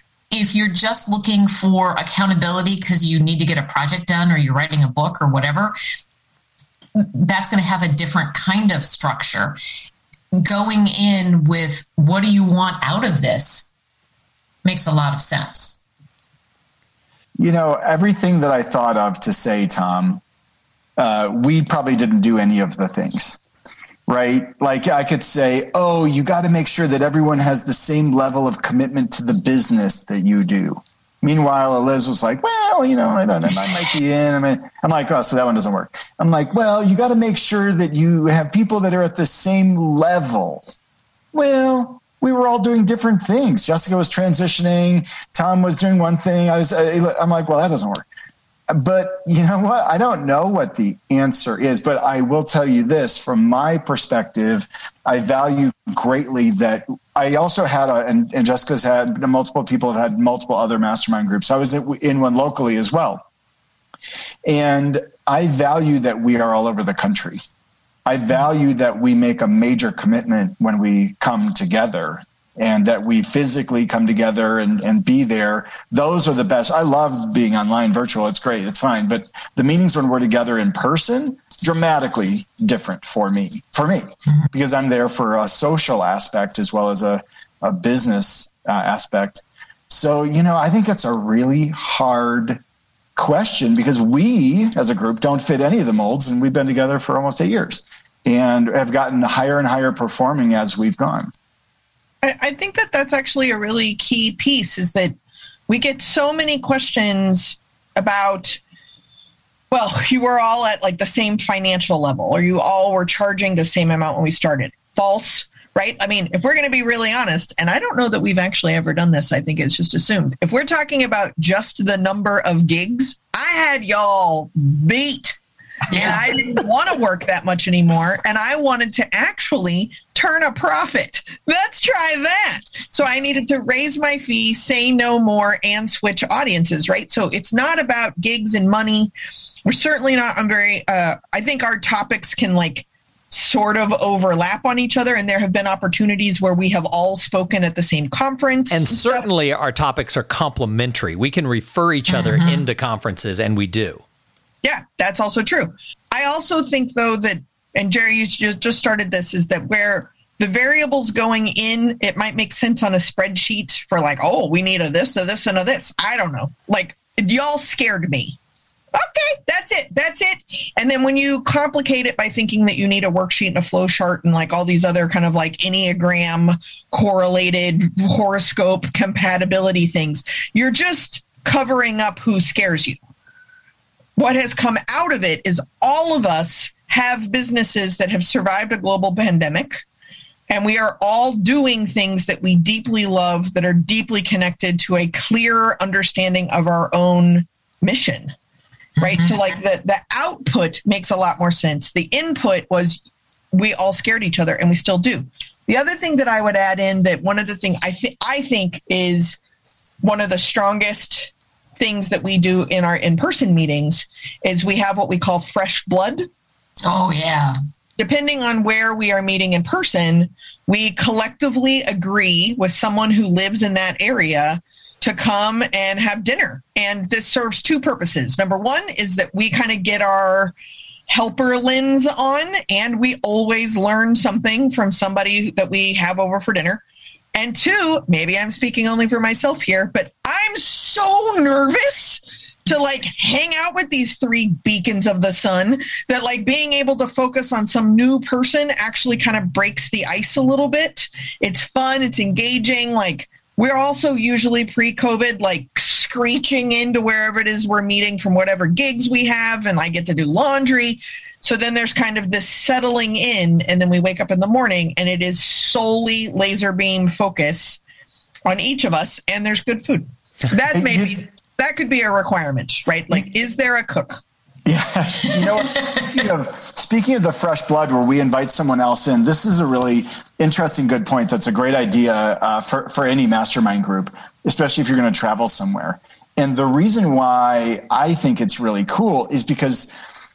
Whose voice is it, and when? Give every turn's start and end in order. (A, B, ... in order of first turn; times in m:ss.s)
0:00.3-0:05.7 A
0:06.9-0:09.6 A
0:10.3-0:13.7 A
0:14.6-0:15.8 A
0:17.4-0:20.2 B
0:21.0-0:23.4 B
0:24.1-0:40.7 B
0:41.3-0:48.0 B
0:48.7-1:03.2 B
1:04.4-1:07.4 B
1:08.0-1:32.6 B
1:33.2-1:41.3 B
1:42.2-1:45.2 C
1:45.7-1:48.6 C
1:49.7-2:05.4 C
2:05.9-2:19.1 C
2:05.9-2:06.2 A
2:19.6-2:29.2 C
2:28.7-2:34.0 D
2:32.1-2:32.6 A
2:34.6-2:48.4 C
2:48.9-3:03.0 C
3:04.2-3:09.8 C
3:10.5-3:18.3 C
3:19.0-3:19.4 A
3:19.0-3:29.4 C
3:30.0-3:36.3 C
3:36.8-3:37.6 A
3:38.0-3:50.5 C
3:51.1-3:56.8 C
3:57.3-4:27.8 C
4:28.4-4:34.2 C
4:30.7-4:31.2 B
4:34.6-4:49.9 B